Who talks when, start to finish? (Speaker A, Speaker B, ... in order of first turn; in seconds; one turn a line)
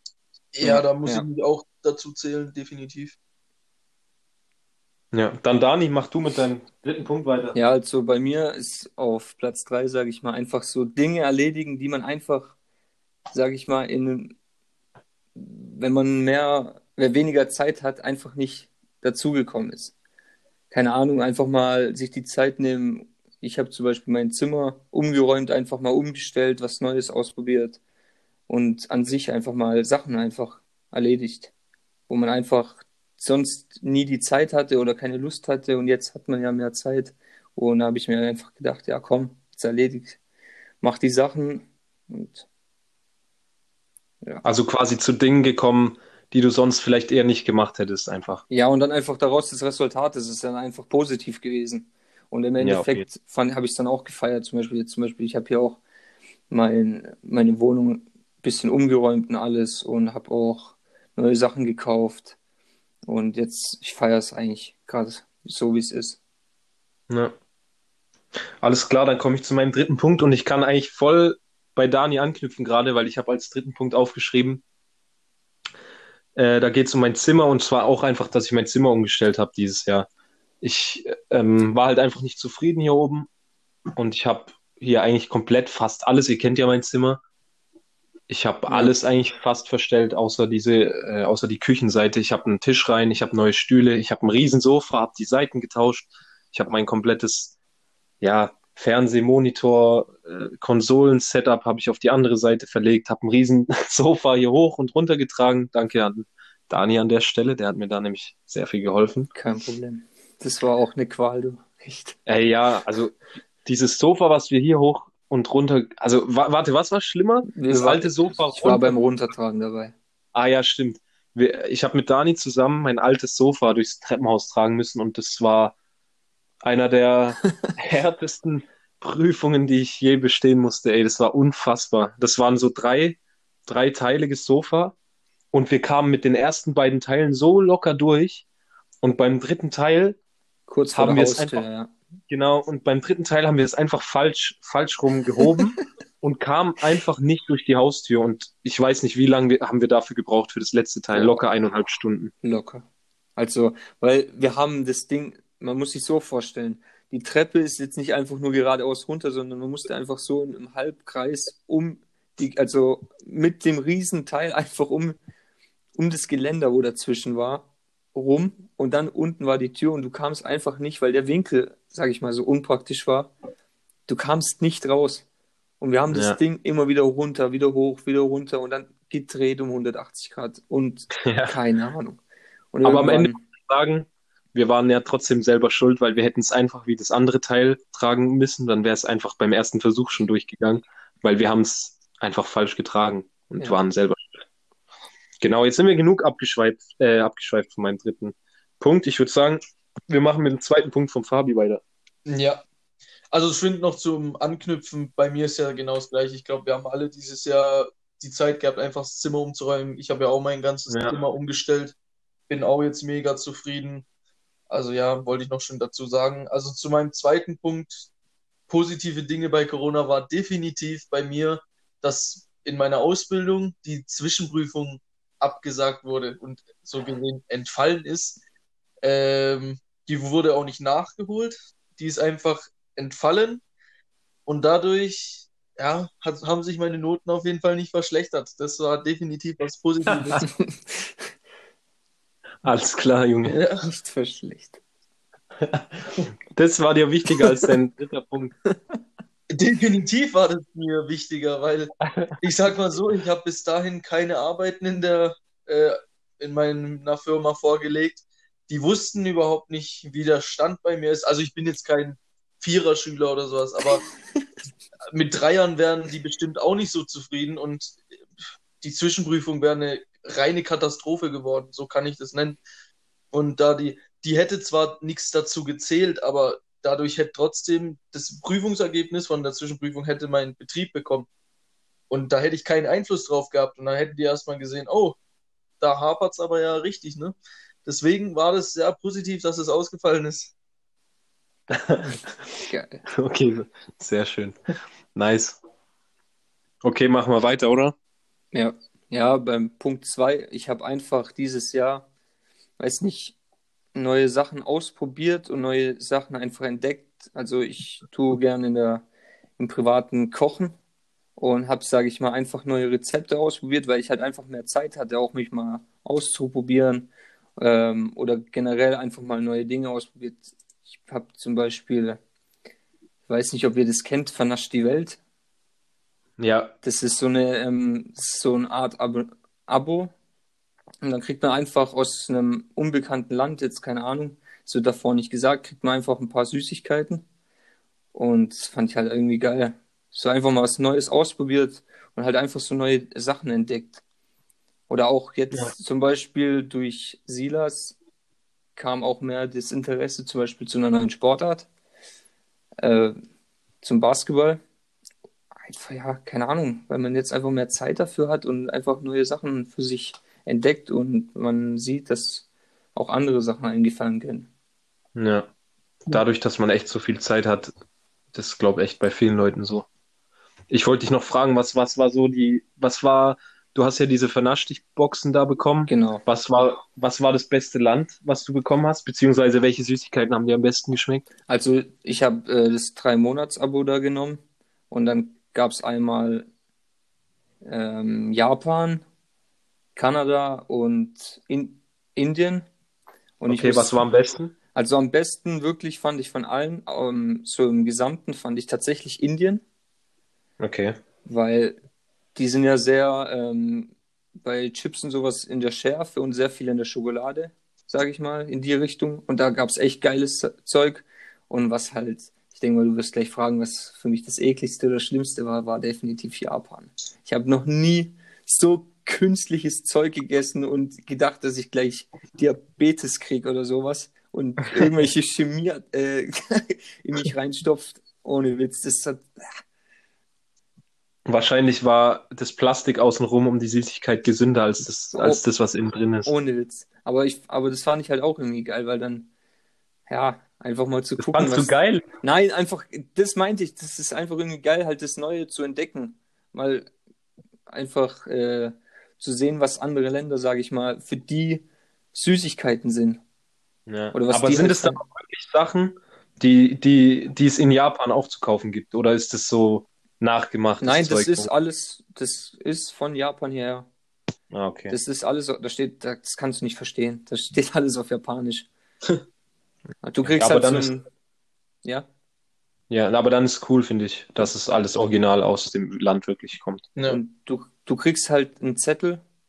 Speaker A: 0.5-3.2
Speaker B: 0.6-1.2
Speaker C: 5.1-7.6
Speaker B: 7.5-12.6
Speaker B: 13.3-14.4
Speaker B: 15.3-19.9
Speaker B: 20.7-27.8
Speaker B: 28.5-31.5
Speaker B: 32.1-40.2
Speaker B: 40.8-42.5
Speaker C: 44.4-48.4
Speaker B: 48.5-55.8
Speaker C: 52.6-53.0
Speaker B: 56.5-62.4
Speaker B: 63.0-66.2
Speaker C: 67.1-67.3
Speaker C: 68.6-74.6
Speaker C: 76.4-80.1
Speaker C: 80.6-83.3
Speaker C: 84.0-87.2
Speaker C: 88.3-97.5
Speaker B: 88.7-88.9
Speaker C: 98.2-109.3
Speaker B: 109.3-112.2
Speaker C: 112.2-119.0
Speaker B: 117.5-119.9
Speaker C: 120.3-125.7
Speaker C: 126.6-134.9
Speaker C: 135.5-138.4
Speaker C: 139.0-140.2
Speaker B: 140.7-141.9
Speaker C: 140.9-141.6
Speaker C: 142.3-152.3
Speaker B: 151.1-151.4
Speaker B: 152.4-152.8
Speaker B: 153.4-165.2
Speaker B: 165.9-173.3
Speaker B: 174.1-175.2
Speaker B: 175.8-182.2
Speaker C: 176.1-176.4
Speaker C: 181.2-181.6
Speaker B: 182.7-183.4
Speaker C: 182.8-194.4
Speaker C: 195.4-201.8
Speaker A: 202.2-202.6
Speaker A: 203.3-211.9
Speaker C: 210.9-211.2
Speaker A: 212.5-214.1
Speaker A: 214.7-218.1
Speaker A: 218.7-228.4
Speaker A: 229.0-233.6
Speaker A: 234.4-240.5
Speaker B: 240.4-241.2
Speaker C: 242.6-243.6
Speaker A: 243.5-243.9
Speaker B: 243.8-244.8
Speaker C: 245.6-246.0
Speaker C: 246.5-248.6
Speaker A: 249.5-264.0
Speaker C: 252.1-252.4
Speaker A: 265.1-268.0
Speaker A: 268.8-272.6
Speaker A: 273.3-281.3
Speaker A: 282.1-285.2
Speaker A: 285.8-290.5
Speaker C: 291.7-292.2
Speaker B: 292.7-293.1
Speaker C: 293.1-294.6
Speaker C: 295.1-295.6
Speaker C: 296.8-297.9
Speaker B: 298.5-302.1
Speaker B: 302.8-303.4
Speaker B: 303.9-309.1
Speaker B: 309.6-310.7
Speaker B: 311.4-322.2
Speaker B: 323.3-325.2
Speaker C: 326.4-326.7
Speaker B: 326.8-330.1
Speaker B: 331.0-337.2
Speaker B: 338.1-344.0
Speaker B: 344.9-348.0
Speaker B: 348.8-351.7
Speaker B: 352.8-353.1
Speaker B: 353.8-354.6
Speaker B: 355.6-364.5
Speaker C: 365.1-365.5
Speaker C: 366.1-367.7
Speaker C: 368.3-369.9
Speaker C: 370.7-381.2
Speaker B: 375.9-376.2
Speaker B: 381.5-386.5
Speaker B: 387.6-389.0
Speaker B: 389.9-392.7
Speaker B: 393.4-394.1
Speaker C: 393.5-394.6
Speaker B: 394.7-399.6
Speaker C: 400.6-400.9
Speaker B: 401.2-401.8
Speaker B: 402.4-429.6
Speaker C: 431.2-436.3
Speaker B: 435.1-435.4
Speaker B: 436.2-439.3
Speaker B: 440.1-446.9
Speaker C: 441.2-442.1
Speaker B: 447.7-453.2
Speaker C: 453.9-461.5
Speaker B: 454.1-455.0
Speaker B: 460.8-463.9
Speaker C: 464.5-464.9
Speaker B: 464.9-468.7
Speaker B: 470.0-471.1
Speaker C: 470.2-470.9
Speaker C: 472.9-476.9
Speaker A: 476.9-477.2
Speaker B: 477.1-479.2